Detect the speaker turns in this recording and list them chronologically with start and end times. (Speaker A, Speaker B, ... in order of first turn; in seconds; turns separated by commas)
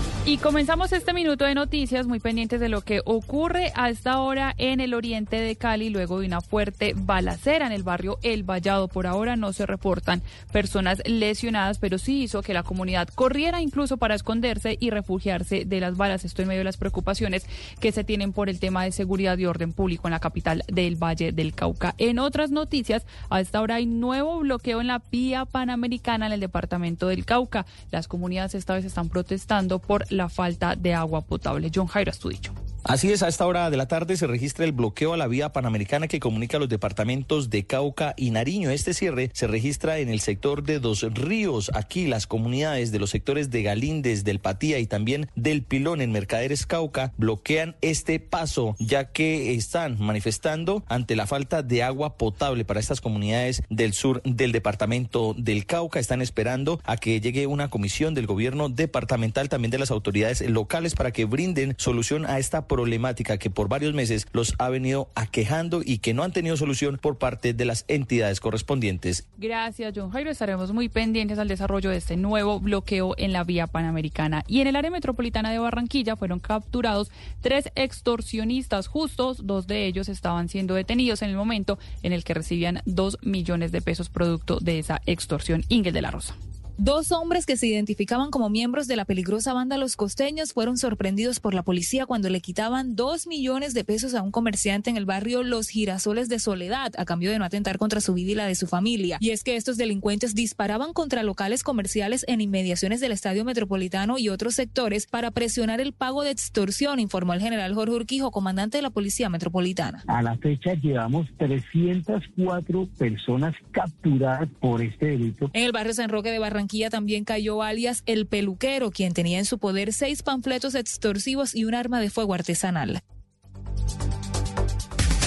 Speaker A: 0.2-32.5, Speaker B: 32.9-69.2, Speaker A: 69.4-86.4, Speaker C: 86.8-110.0, Speaker D: 110.1-115.5, Speaker C: 115.5-123.0